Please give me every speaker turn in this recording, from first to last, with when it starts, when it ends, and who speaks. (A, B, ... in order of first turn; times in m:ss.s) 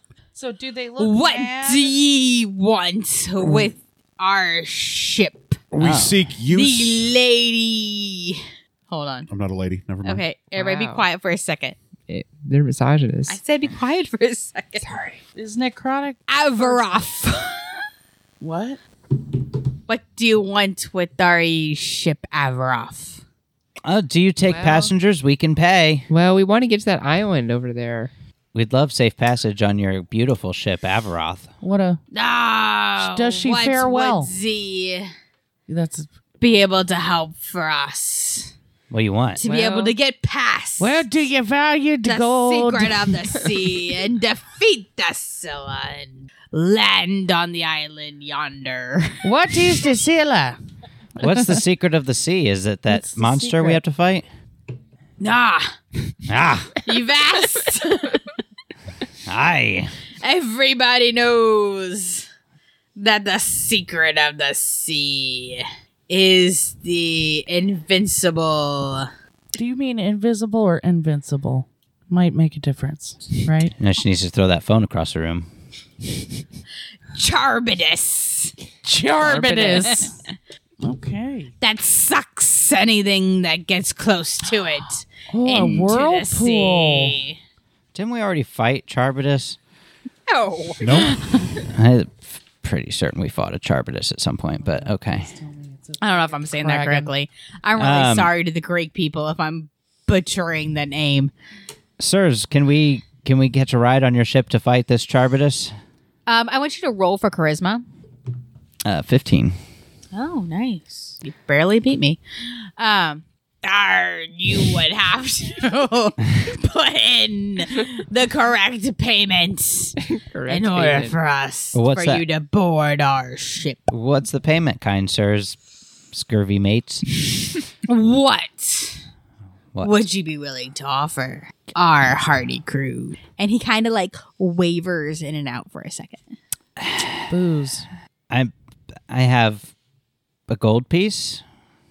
0:00.3-0:01.9 A
0:01.0-0:05.6 B
0:05.7-0:07.2 C
0:05.8-0:06.2 D
0:06.5-0:09.3 B
0:09.3-0:10.2 C
0:10.0-0:11.8 B
0:10.5-0:11.1 E
0:12.1-0:13.4 E
0:13.3-0:14.9 B
0:14.8-0:15.2 E
0:15.4-0:17.0 A
0:16.3-0:17.8 B
0:18.4-0:18.8 A
0:19.9-0:23.2 B
0:23.8-0:26.1 D
0:24.4-0:24.9 E
0:26.1-0:28.1 E
0:28.5-0:31.5 D
0:31.6-0:32.0 A
0:32.1-0:35.1 B
0:33.0-0:34.3 A
0:35.7-0:36.1 A
0:36.4-0:38.5 B
0:38.9-0:39.4 D
0:39.4-0:41.1 B
0:39.4-0:39.9 E
0:40.8-0:43.2 A
0:42.0-0:49.3 B
0:49.2-0:50.6 A
0:51.2-0:54.2 D
0:51.2-0:51.6 A
0:52.9-0:53.8 A
0:55.2-0:55.8 B
0:56.3-0:56.8 D
0:56.8-0:58.2 B
0:59.3-0:59.9 D
1:00.2-1:02.3 B
1:03.0-1:09.1 B
1:09.6-1:13.7 A
1:13.8-1:15.5 D
1:17.2-1:18.6 B
1:18.8-1:20.2 A
1:19.2-1:20.1 B
1:20.8-1:21.5 A
1:21.6-1:27.4 B
1:25.3-1:27.2 A
1:27.9-1:29.6 D
1:30.3-1:31.5 B
1:30.8-1:31.4 C
1:31.6-1:35.3 D
1:34.6-1:37.1 A
1:36.0-1:41.3 B
1:37.8-1:38.3 D
1:42.0-1:45.7 D
1:46.3-1:47.8 B
1:48.8-1:49.6 D
1:50.1-1:52.2 B
1:52.8-2:03.9 B
2:00.2-2:01.2 E
2:01.7-2:02.2 D
2:03.9-2:05.6 D
2:06.1-2:07.0 D
2:07.9-2:09.0 B
2:09.8-2:16.4 B
2:16.8-2:17.3 D
2:17.3-2:17.9 A
2:19.1-2:19.7 D
2:20.5-2:21.4 D